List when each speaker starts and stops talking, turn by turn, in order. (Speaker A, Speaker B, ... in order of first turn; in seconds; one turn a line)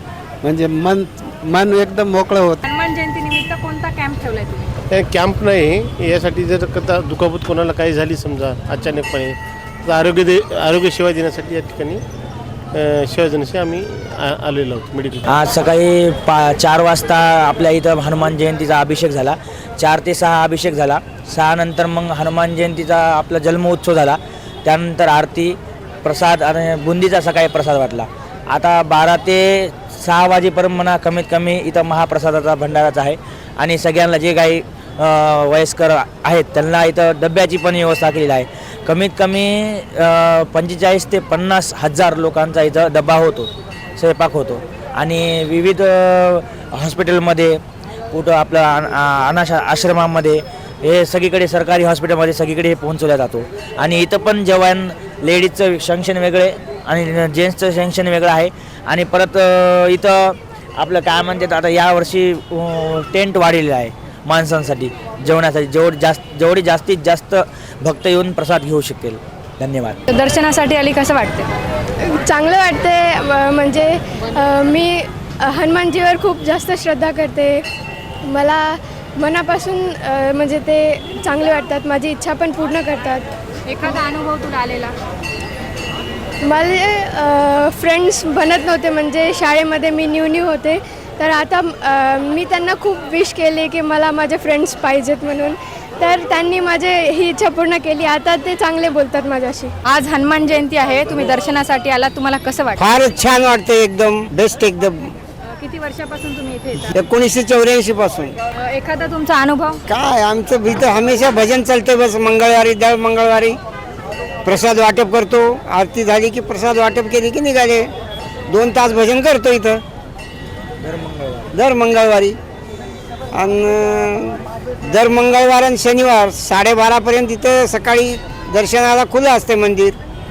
Speaker A: 0.4-2.6
Speaker B: 2.6-4.8
Speaker C: 4.9-12.0
Speaker C: 12.8-15.2
Speaker D: 15.3-47.6
Speaker D: 48.1-70.0
Speaker B: 70.1-71.5
Speaker E: 72.1-77.6
Speaker E: 78.3-83.3
Speaker B: 83.7-84.9
Speaker E: 86.5-99.7
Speaker B: 99.9-103.2
Speaker F: 102.8-105.1
Speaker B: 105.6-106.9
Speaker F: 106.9-108.3
Speaker B: 108.7-109.8
Speaker F: 109.9-113.6
Speaker F: 114.5-117.9
Speaker F: 118.5-119.8
Speaker D: 120.8-121.4
Speaker F: 121.5-122.4
Speaker F: 123.3-130.0